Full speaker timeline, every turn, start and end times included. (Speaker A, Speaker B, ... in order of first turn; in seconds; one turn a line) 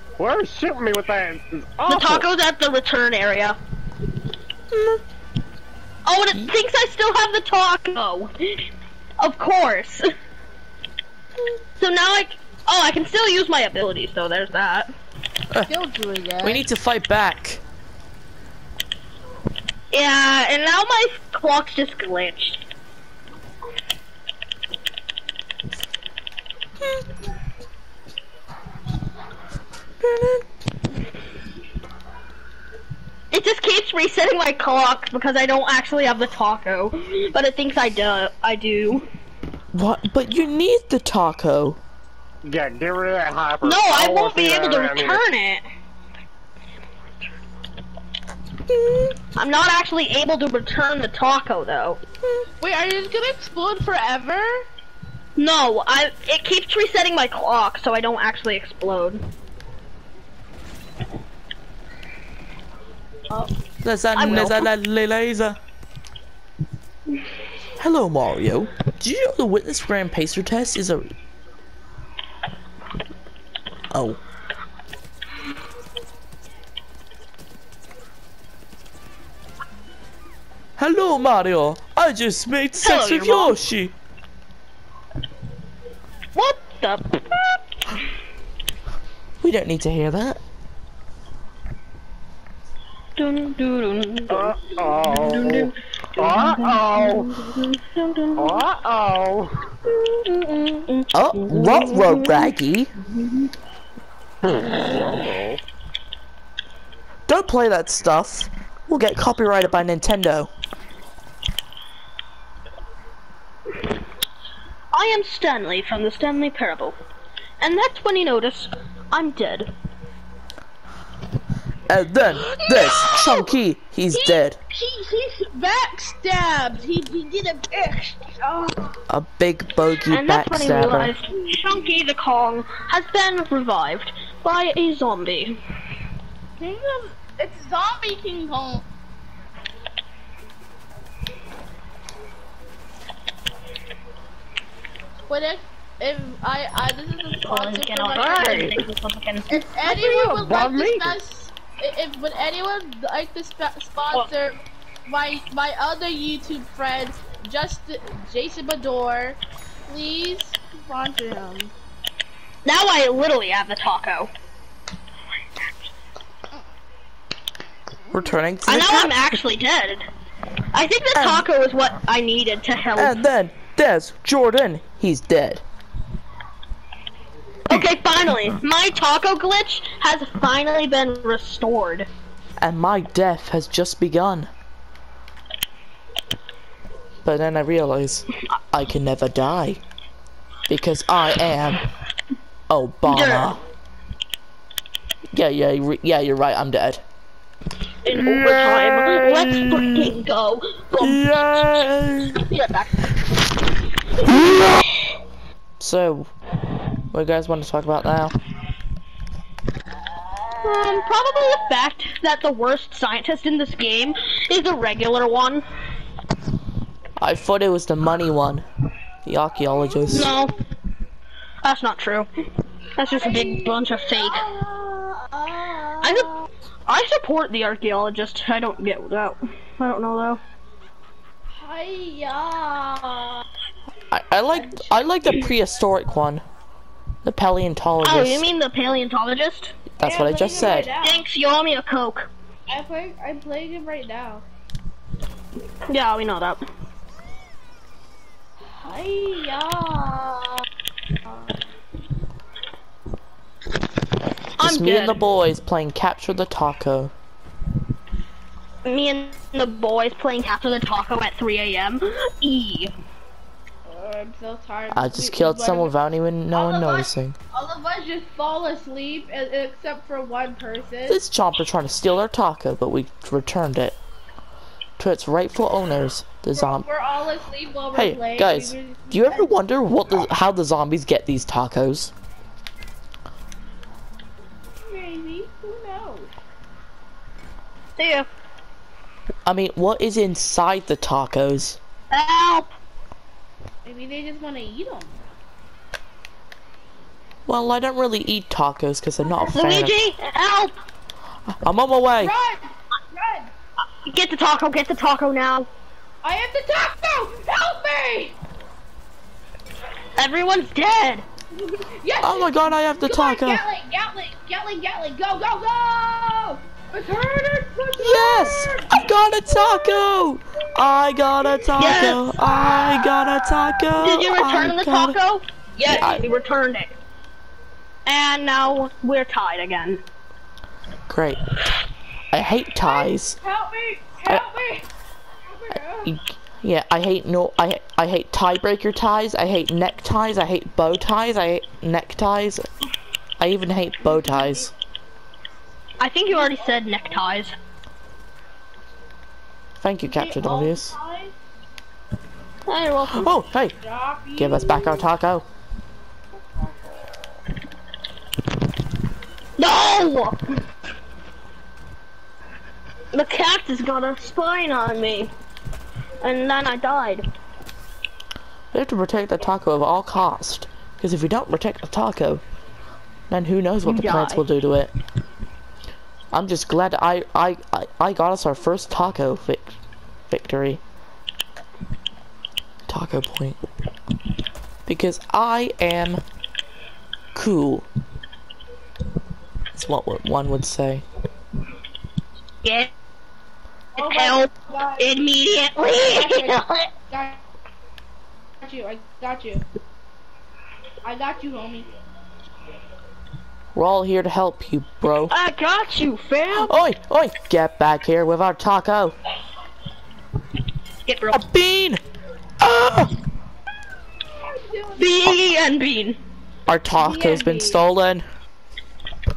Speaker A: 0.2-2.2
Speaker B: 1.9-3.6
Speaker B: 6.1-8.7
Speaker B: 9.2-10.1
Speaker B: 11.8-14.9
Speaker C: 15.7-16.6
Speaker D: 16.4-17.6
Speaker B: 19.9-22.6
Speaker D: 30.0-30.4
Speaker B: 33.3-39.1
Speaker D: 39.7-41.8
Speaker A: 42.4-45.2
Speaker B: 43.6-45.6
Speaker B: 49.4-52.0
Speaker C: 52.6-54.6
Speaker B: 55.4-59.2
Speaker D: 63.8-65.6
Speaker B: 64.1-64.7
Speaker D: 67.8-71.1
Speaker D: 73.9-74.2
Speaker D: 80.8-83.9
Speaker B: 82.8-83.6
Speaker B: 86.3-87.6
Speaker D: 89.4-90.4
Speaker B: 93.2-98.7
Speaker A: 94.3-97.3
Speaker A: 98.4-99.7
Speaker B: 99.9-102.5
Speaker D: 101.1-102.9
Speaker B: 103.1-103.5
Speaker A: 104.4-105.6
Speaker D: 107.3-110.5
Speaker B: 114.9-117.0
Speaker B: 117.6-119.7
Speaker D: 121.9-124.6
Speaker C: 122.6-123.2
Speaker C: 124.1-128.9
Speaker D: 129.1-131.1
Speaker B: 130.1-135.6
Speaker C: 136.6-138.8
Speaker C: 145.3-148.8
Speaker B: 147.5-149.7
Speaker A: 148.2-148.8
Speaker C: 149.5-161.7
Speaker A: 149.9-151.2
Speaker B: 162.6-164.3
Speaker D: 168.1-169.3
Speaker B: 168.7-170.1
Speaker B: 170.7-173.1
Speaker D: 171.1-171.4
Speaker D: 172.9-175.6
Speaker B: 177.7-182.1
Speaker D: 182.6-184.5
Speaker D: 187.2-189.8
Speaker D: 190.7-191.8
Speaker D: 192.7-193.6
Speaker B: 193.1-193.5
Speaker D: 195.3-197.0
Speaker B: 198.1-201.6
Speaker D: 198.1-200.2
Speaker D: 200.9-202.4
Speaker B: 202.4-203.1
Speaker B: 204.3-204.5
Speaker D: 205.8-206.3
Speaker D: 207.1-208.3
Speaker B: 210.6-215.6
Speaker D: 217.2-218.6
Speaker D: 219.2-220.3
Speaker B: 220.1-220.5
Speaker B: 221.6-222.3
Speaker B: 222.9-224.4
Speaker C: 223.0-226.3
Speaker B: 226.0-230.4
Speaker C: 231.6-233.4
Speaker D: 234.1-236.4
Speaker D: 237.2-238.4
Speaker B: 238.0-239.8
Speaker D: 240.0-240.9
Speaker C: 240.0-241.2
Speaker B: 240.6-242.3
Speaker C: 242.7-244.4
Speaker B: 245.9-246.6
Speaker C: 248.8-250.5
Speaker B: 254.6-255.2
Speaker D: 254.6-257.1
Speaker B: 258.8-262.9
Speaker C: 263.9-265.9
Speaker D: 264.9-267.4
Speaker C: 266.5-271.2
Speaker D: 271.1-274.0
Speaker D: 275.0-276.9
Speaker C: 276.6-279.6
Speaker D: 277.9-282.1
Speaker C: 284.9-286.3
Speaker B: 288.0-288.3
Speaker D: 289.4-291.8
Speaker B: 292.1-292.7
Speaker C: 293.9-295.2
Speaker D: 297.4-299.9
Speaker B: 299.4-300.8
Speaker D: 301.5-302.3
Speaker C: 302.2-303.5
Speaker B: 304.1-305.7
Speaker C: 306.2-308.4
Speaker B: 310.2-311.3
Speaker C: 311.5-320.0
Speaker D: 312.2-313.6
Speaker D: 318.0-325.1
Speaker B: 321.8-322.3
Speaker C: 322.1-323.5
Speaker B: 323.9-326.9
Speaker C: 325.9-326.3
Speaker D: 326.0-326.2
Speaker B: 328.1-330.0
Speaker D: 331.1-331.4
Speaker D: 332.3-333.4
Speaker C: 332.8-334.9
Speaker C: 335.4-336.1
Speaker D: 336.0-342.7
Speaker D: 343.4-344.7
Speaker B: 346.0-347.5
Speaker C: 346.3-347.1
Speaker D: 349.8-350.9
Speaker C: 350.1-351.3
Speaker B: 352.7-353.3
Speaker D: 353.1-353.8
Speaker C: 353.8-355.0
Speaker D: 354.4-355.5
Speaker B: 359.6-360.4
Speaker B: 363.1-365.3
Speaker B: 366.2-367.3
Speaker D: 368.7-372.4
Speaker D: 373.3-374.9
Speaker B: 373.8-374.4
Speaker D: 376.3-379.7
Speaker D: 380.3-380.8
Speaker D: 382.9-383.6
Speaker D: 384.9-386.2
Speaker D: 387.4-387.9
Speaker D: 389.7-391.1
Speaker B: 392.6-392.9
Speaker B: 393.9-396.9
Speaker C: 394.0-395.1
Speaker C: 396.0-397.4
Speaker C: 398.6-399.6
Speaker C: 401.0-401.9
Speaker D: 403.8-405.4
Speaker B: 405.3-406.7
Speaker D: 406.6-409.2
Speaker B: 411.1-411.4
Speaker D: 411.3-412.0
Speaker D: 412.6-413.1
Speaker C: 414.4-415.2
Speaker B: 415.0-416.2
Speaker D: 416.7-418.2
Speaker C: 416.9-417.8